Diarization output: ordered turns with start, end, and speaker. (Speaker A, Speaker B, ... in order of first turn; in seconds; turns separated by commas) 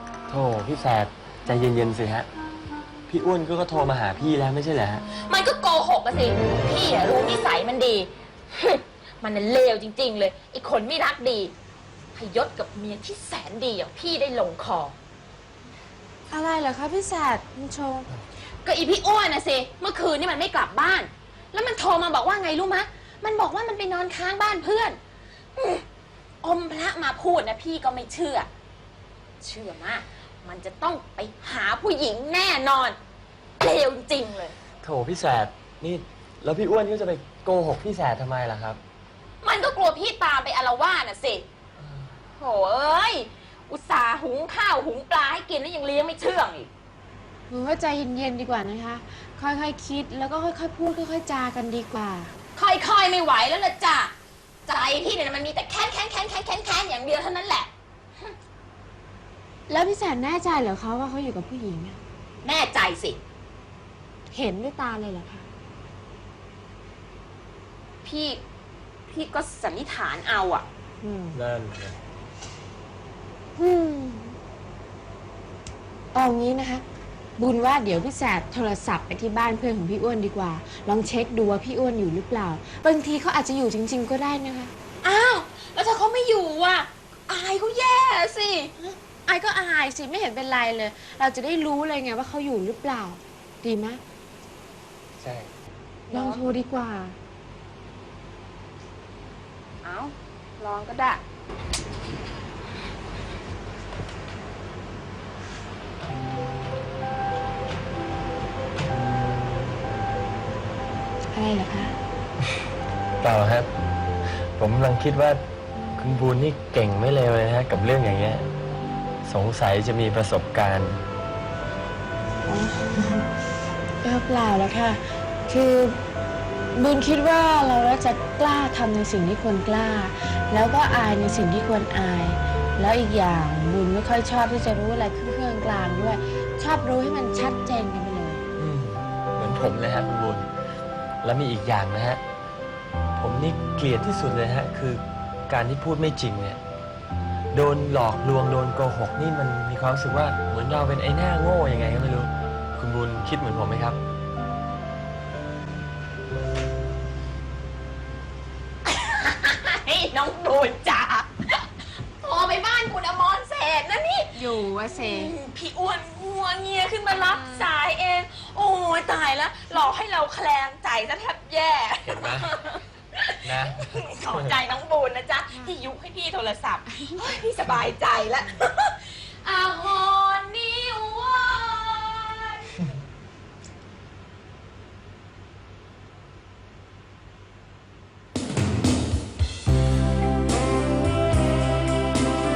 Speaker A: 0.3-2.3, Speaker A: 3.1-5.0, Speaker B: 5.1-11.5, Speaker B: 12.1-14.9, Speaker C: 16.3-18.1, Speaker B: 18.6-25.0, Speaker B: 25.6-25.8, Speaker B: 26.4-28.5, Speaker B: 29.4-33.0, Speaker B: 33.6-34.5, Speaker A: 34.8-38.8, Speaker B: 39.4-41.5, Speaker B: 42.4-46.7, Speaker C: 47.5-52.3, Speaker B: 52.5-54.1, Speaker B: 54.6-57.7, Speaker C: 59.7-62.0, Speaker B: 62.4-63.2, Speaker C: 64.3-65.5, Speaker B: 68.0-68.4, Speaker B: 69.1-70.7, Speaker C: 71.0-71.4, Speaker A: 71.3-72.0, Speaker C: 73.5-74.4, Speaker C: 76.1-76.8, Speaker C: 77.4-84.7, Speaker B: 85.0-88.7, Speaker C: 88.8-94.0, Speaker A: 95.2-95.5, Speaker B: 96.1-96.5, Speaker C: 96.1-97.2, Speaker B: 99.8-101.2, Speaker C: 111.3-112.0, Speaker A: 113.2-113.7, Speaker A: 114.2-115.4, Speaker A: 116.0-118.5, Speaker A: 119.2-121.0, Speaker C: 122.5-123.3, Speaker C: 124.0-126.0, Speaker C: 126.7-138.4, Speaker A: 138.6-140.5, Speaker A: 141.2-142.2, Speaker A: 143.2-146.6, Speaker A: 147.5-154.0, Speaker B: 158.8-161.6, Speaker B: 162.2-182.8, Speaker C: 164.3-165.3, Speaker A: 172.0-172.5, Speaker A: 173.4-174.6